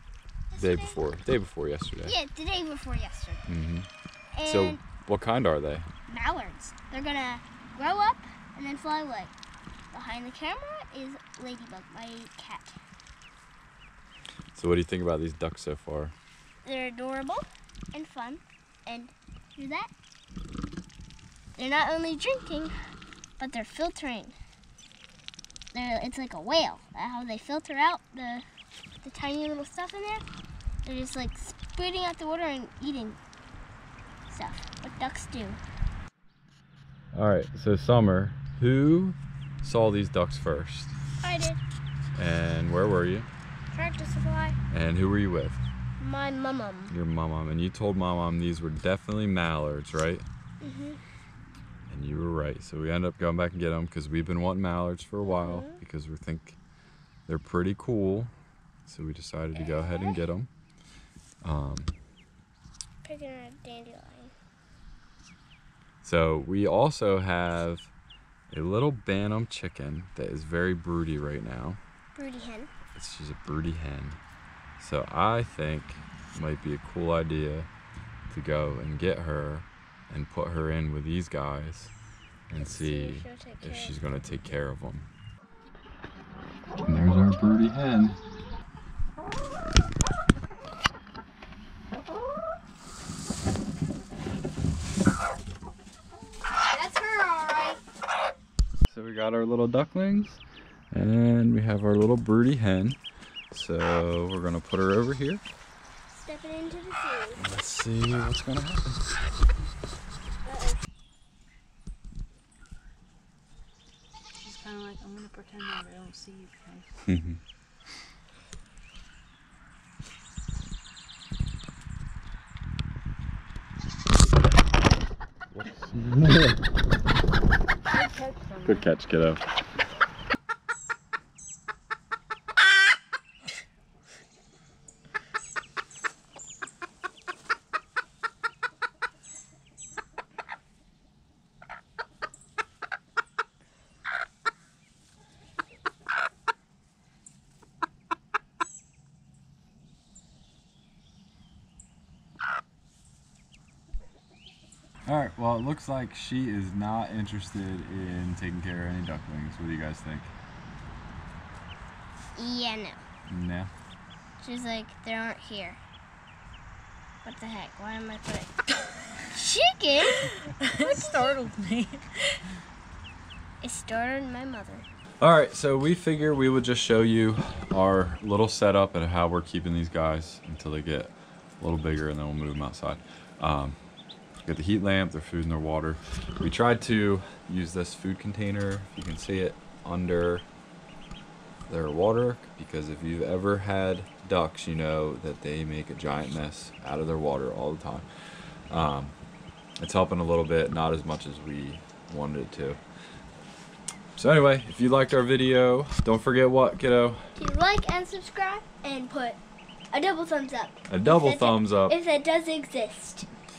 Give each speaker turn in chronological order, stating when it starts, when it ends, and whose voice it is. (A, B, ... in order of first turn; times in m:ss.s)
0:00.5-0:01.0 A
0:00.6-0:02.1 B
0:02.0-0:03.5 A
0:03.5-0:03.9 B
0:04.4-0:04.8 A
0:04.5-0:05.9 B
0:06.1-0:09.3 A
0:09.9-0:12.8 A
0:14.5-0:16.2 B
0:16.6-0:19.9 A
0:21.6-0:22.7 A
0:23.4-0:24.4 A
0:25.7-0:28.4 A
0:29.0-0:30.2 A
0:30.8-0:33.2 A
0:34.3-0:35.6 A
0:37.1-0:41.0 B
0:41.2-0:41.6 A
0:42.2-0:43.3 B
0:43.7-0:44.6 A
0:44.7-0:45.6 B
0:46.0-0:46.9 A
0:46.9-0:50.2 B
0:50.6-0:51.0 A
0:51.9-0:56.6 B
0:55.2-0:55.8 A
0:57.3-0:58.3 B
0:58.9-1:00.5 B
0:59.5-1:00.2 A
1:01.4-1:02.0 B
1:03.0-1:04.3 A
1:06.0-1:07.9 B
1:08.5-1:11.8 B
1:12.2-1:12.7 A
1:12.9-1:14.2 B
1:14.8-1:17.7 B
1:18.3-1:21.9 B
1:22.5-1:25.1 B
1:22.6-1:24.0 A
1:26.8-1:28.2 B
1:36.7-1:37.8 A
1:38.9-1:43.0 B
1:43.5-1:45.4 B
1:46.1-1:47.5 A
1:47.4-1:49.1 B
1:50.4-1:50.8 A
1:54.4-1:57.0 C
1:57.0-1:57.4 B
2:07.9-2:08.9 C
2:08.6-2:09.4 B
2:35.1-2:40.3 B
2:42.4-2:43.0 A
2:43.3-2:43.7 B
2:44.4-2:45.8 A
2:47.2-2:48.5 A
2:49.3-2:51.4 A
2:50.6-2:52.4 C
2:53.6-2:54.8 A
2:55.2-3:03.8 B
3:04.4-3:10.5 B
3:11.7-3:19.2 B
3:19.8-3:22.8 B
3:24.2-3:27.3 B
3:27.4-3:29.4 A
3:29.9-3:33.3 A
3:30.9-3:32.0 B